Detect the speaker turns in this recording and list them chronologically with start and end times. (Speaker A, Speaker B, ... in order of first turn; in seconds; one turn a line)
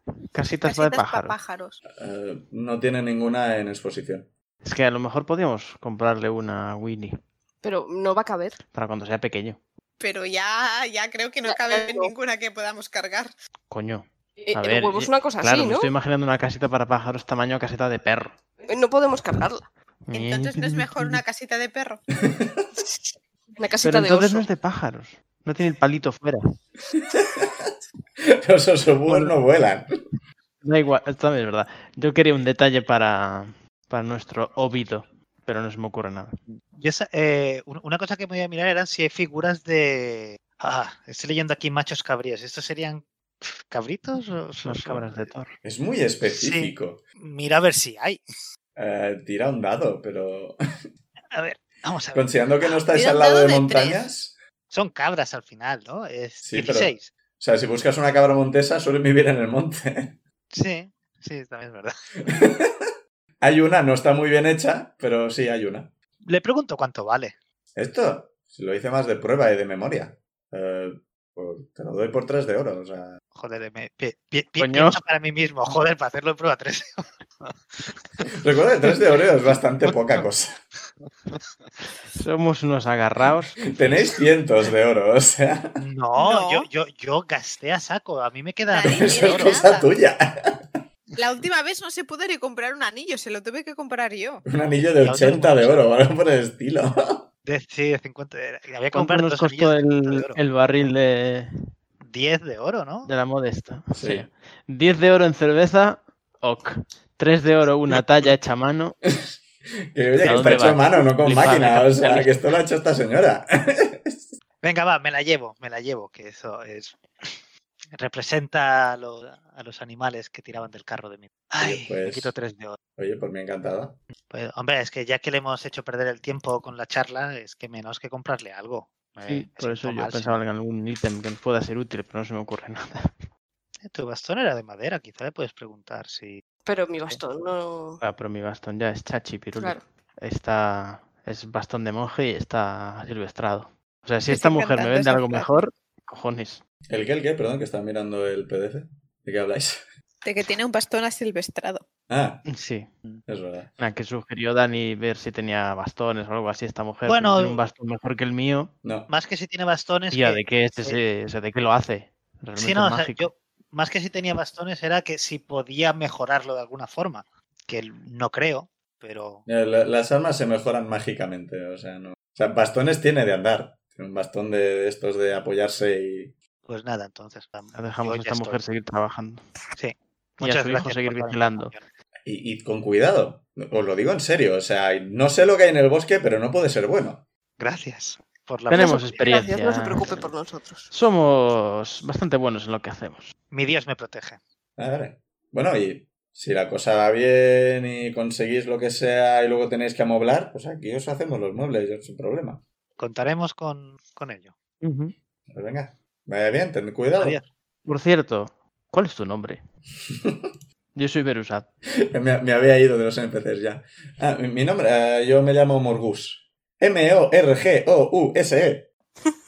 Speaker A: 0.3-1.4
Speaker B: 0.6-1.8
Speaker C: 1.9-4.3
Speaker A: 4.6-7.2
Speaker D: 7.6-8.6
Speaker A: 8.7-9.6
Speaker B: 10.0-13.3
Speaker D: 11.4-12.1
Speaker A: 13.7-18.4
Speaker D: 14.4-15.9
Speaker D: 18.7-19.7
Speaker A: 20.1-21.2
Speaker B: 20.1-22.0
Speaker C: 22.2-22.7
Speaker D: 23.6-24.5
Speaker A: 23.8-26.6
Speaker C: 27.0-27.7
Speaker C: 28.3-29.9
Speaker A: 29.1-29.3
Speaker A: 30.6-36.4
Speaker E: 36.7-45.3
Speaker A: 44.6-45.5
Speaker C: 45.6-47.0
Speaker E: 46.3-48.2
Speaker C: 48.8-50.6
Speaker E: 51.3-52.3
Speaker C: 52.1-54.4
Speaker B: 52.9-54.1
Speaker E: 54.7-57.1
Speaker C: 56.4-60.2
Speaker E: 60.5-61.9
Speaker C: 62.3-62.9
Speaker C: 63.4-65.9
Speaker E: 66.2-67.3
Speaker C: 67.8-73.2
Speaker E: 73.3-78.3
Speaker A: 74.6-75.0
Speaker C: 78.3-80.5
Speaker A: 82.1-83.7
Speaker C: 83.7-85.8
Speaker E: 85.8-89.6
Speaker B: 86.2-86.7
Speaker B: 88.7-89.9
Speaker C: 88.8-90.8
Speaker B: 91.2-94.4
Speaker C: 94.5-97.3
Speaker E: 95.0-95.9
Speaker E: 97.4-100.4
Speaker A: 98.9-101.5
Speaker E: 102.0-103.1
Speaker A: 103.0-109.0
Speaker C: 103.9-104.3
Speaker C: 109.1-109.3
Speaker C: 109.9-114.4
Speaker A: 110.2-112.4
Speaker E: 114.6-117.4
Speaker E: 117.9-122.8
Speaker C: 121.6-122.3
Speaker C: 123.0-124.0
Speaker E: 124.3-130.4
Speaker A: 129.3-133.3
Speaker E: 133.8-136.4
Speaker D: 136.6-138.0
Speaker A: 138.0-146.6
Speaker D: 139.6-139.8
Speaker B: 144.3-145.5
Speaker C: 146.9-149.9
Speaker B: 150.2-151.8
Speaker C: 152.1-152.4
Speaker A: 152.5-152.9
Speaker C: 153.3-153.7
Speaker A: 153.8-158.7
Speaker E: 157.1-157.6
Speaker C: 158.8-159.1
Speaker E: 159.1-161.0
Speaker A: 160.1-163.3
Speaker E: 162.6-169.4
Speaker C: 169.5-176.3
Speaker E: 176.6-178.6
Speaker A: 177.7-179.4
Speaker E: 179.8-181.8
Speaker A: 180.4-181.7
Speaker C: 182.2-187.2
Speaker E: 187.6-189.2
Speaker A: 188.7-190.3
Speaker D: 188.7-190.9
Speaker A: 190.9-193.3
Speaker E: 193.5-194.4
Speaker C: 194.8-202.6
Speaker E: 203.0-204.5
Speaker A: 204.8-205.1
Speaker C: 205.5-207.4
Speaker E: 207.2-207.4
Speaker A: 207.9-209.6
Speaker C: 210.1-210.5
Speaker A: 210.9-211.7
Speaker C: 212.1-218.9